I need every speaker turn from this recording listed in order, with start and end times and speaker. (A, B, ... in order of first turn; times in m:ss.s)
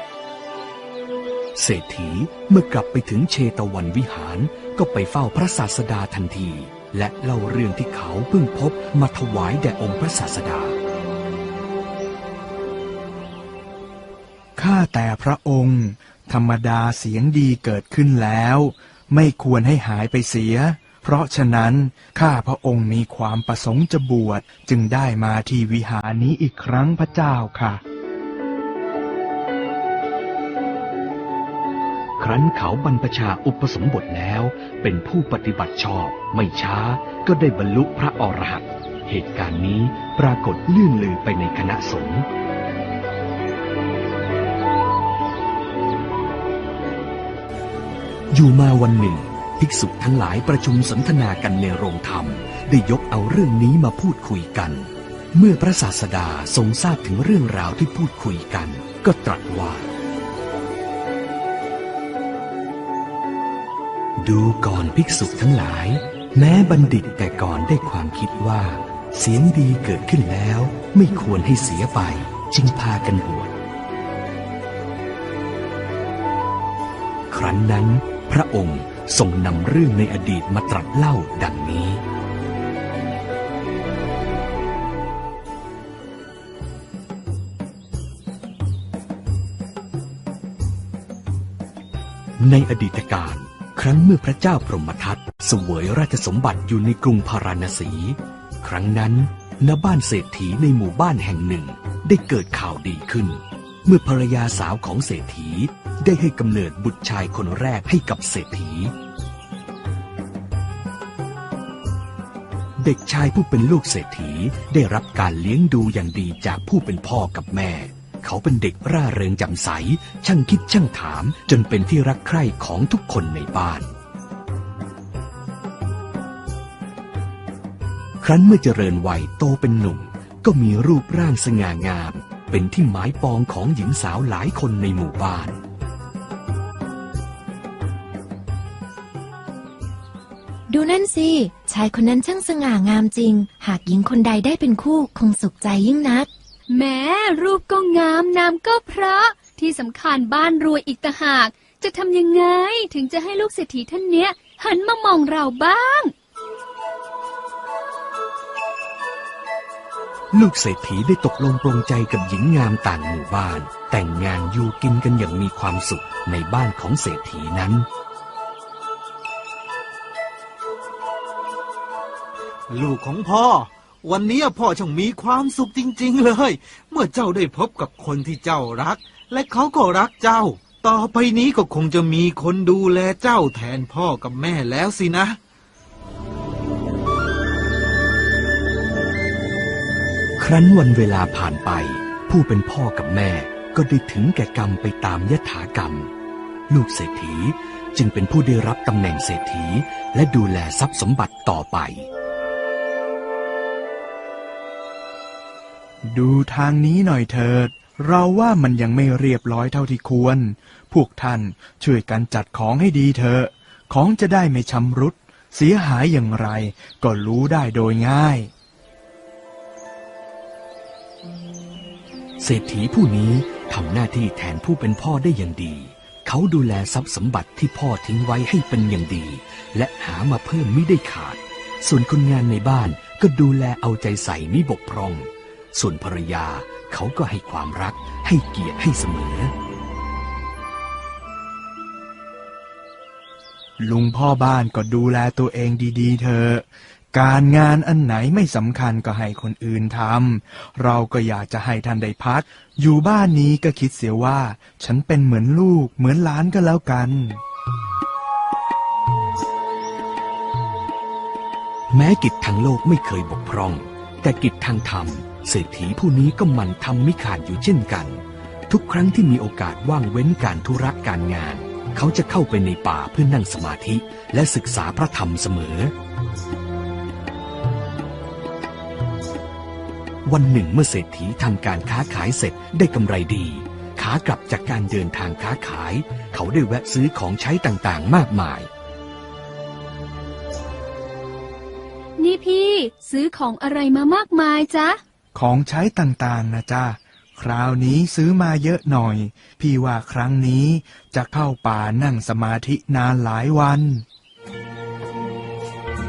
0:01.6-0:10.8 A
0:14.6-0:27.8 B
0:32.2-0:42.3 A
0:48.3-0:59.9 A
1:04.2-1:13.6 A
1:17.3-1:22.0 A
1:32.4-1:48.9 A
1:52.8-2:03.9 A
2:08.2-2:15.6 A
2:20.7-2:26.3 C
2:26.7-2:36.1 D
2:40.3-2:47.9 A
2:52.7-3:05.4 E
3:10.4-3:16.1 A
3:16.7-3:22.1 A
3:26.1-3:38.5 B
3:42.4-3:59.5 A
4:03.8-4:17.4 B
4:21.9-4:35.9 A
4:40.3-4:48.7 A
4:52.2-4:55.0 D
4:55.4-5:04.0 B